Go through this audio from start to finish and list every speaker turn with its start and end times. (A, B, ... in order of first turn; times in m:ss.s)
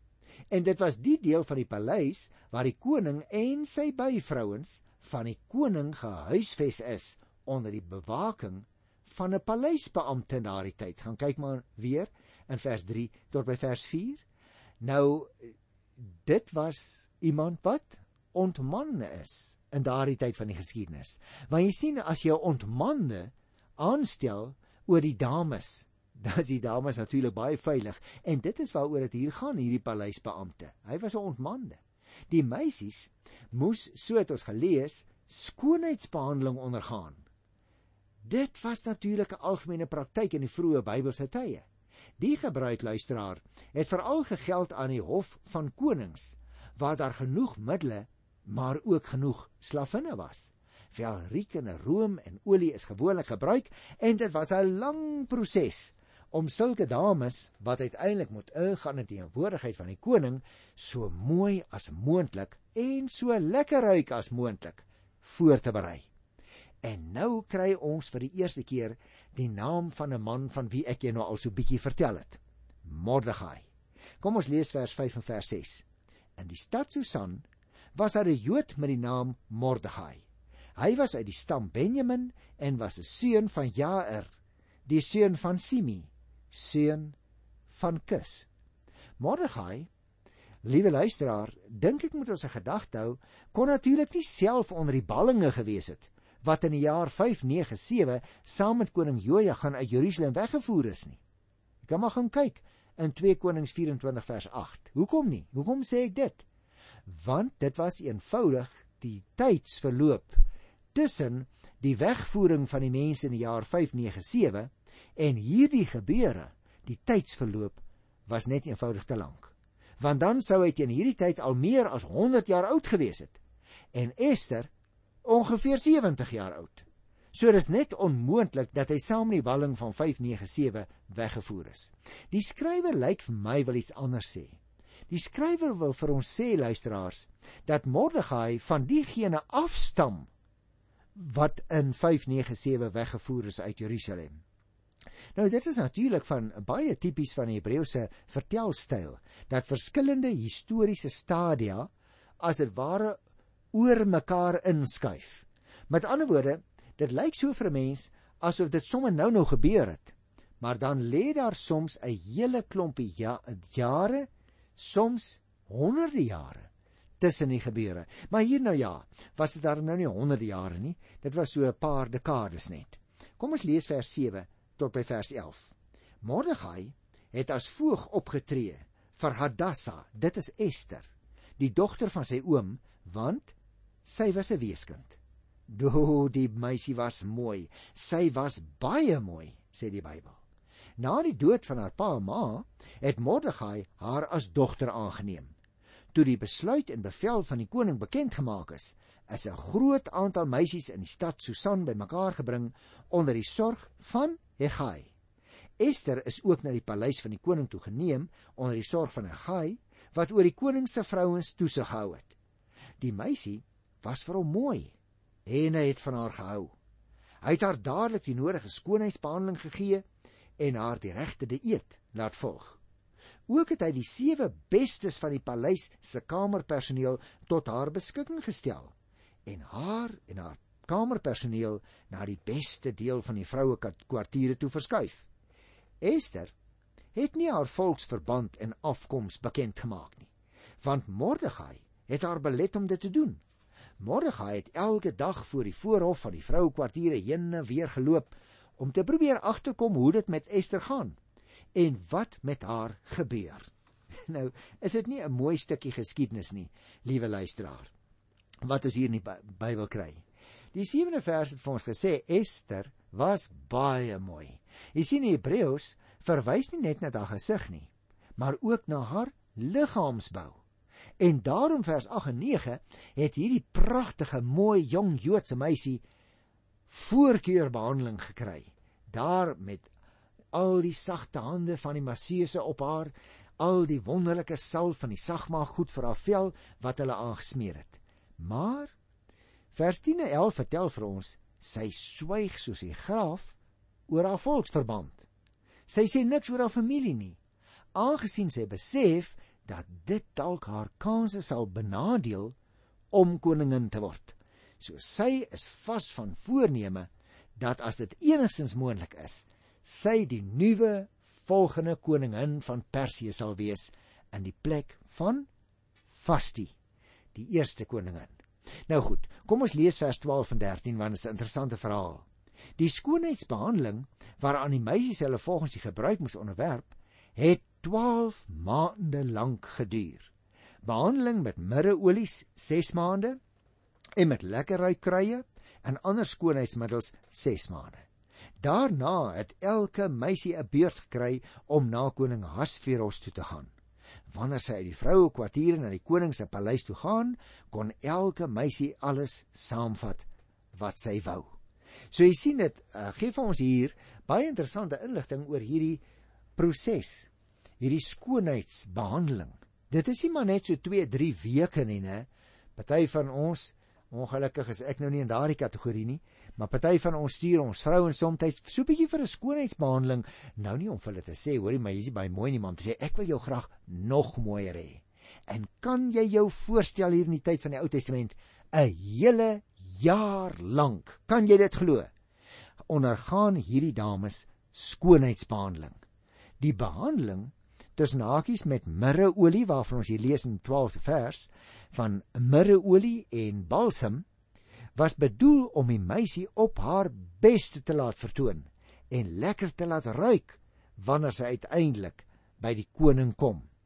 0:00.5-0:14.2 A
0:14.8-0:37.2 A
0:38.2-0:41.6 A
0:42.2-1:06.1 A
1:06.8-1:13.6 A
1:14.2-1:15.8 A
1:16.4-1:20.2 A
1:20.8-1:24.3 A
1:24.9-1:27.2 A
1:27.7-1:28.5 A
1:29.2-1:29.9 A
1:30.6-1:41.2 A
1:41.8-1:46.4 A
1:47.1-1:50.4 A
1:50.9-2:03.4 A
2:03.9-2:04.7 A
2:05.2-2:20.3 A
2:21.2-2:24.4 A
2:25.3-2:33.2 A
2:33.7-2:46.7 A
2:47.2-3:01.1 A
3:01.6-3:05.2 A
3:05.7-3:10.4 A
3:11.0-3:15.5 A
3:16.1-3:25.1 A
3:25.8-3:32.4 A
3:33.0-3:34.9 A
3:35.5-3:36.7 A
3:37.4-3:40.0 A
3:40.6-3:42.8 A
3:43.5-3:48.9 A
3:49.4-3:55.2 A
3:56.0-3:56.5 A
3:57.1-4:00.3 A
4:00.8-4:03.4 A
4:04.0-4:11.2 A
4:11.7-4:13.7 A
4:14.3-4:17.9 A
4:18.6-4:20.2 A
4:20.7-4:30.6 A
4:31.2-4:36.0 A
4:36.9-4:39.9 A
4:40.5-4:48.9 A
4:49.7-4:53.6 A
4:54.1-4:55.3 A
4:55.9-4:57.4 A
4:57.9-5:02.5 A
5:03.1-5:15.5 A
5:16.1-5:16.7 A
5:17.3-5:18.3 A
5:18.9-5:22.2 A
5:22.8-5:30.3 A
5:30.8-5:33.4 A
5:34.2-5:38.0 A
5:38.6-5:43.7 A
5:44.3-5:51.5 A
5:52.1-5:56.0 A
5:56.6-6:22.1 A
6:22.9-6:26.0 A
6:26.6-6:34.2 A
6:34.9-6:43.7 A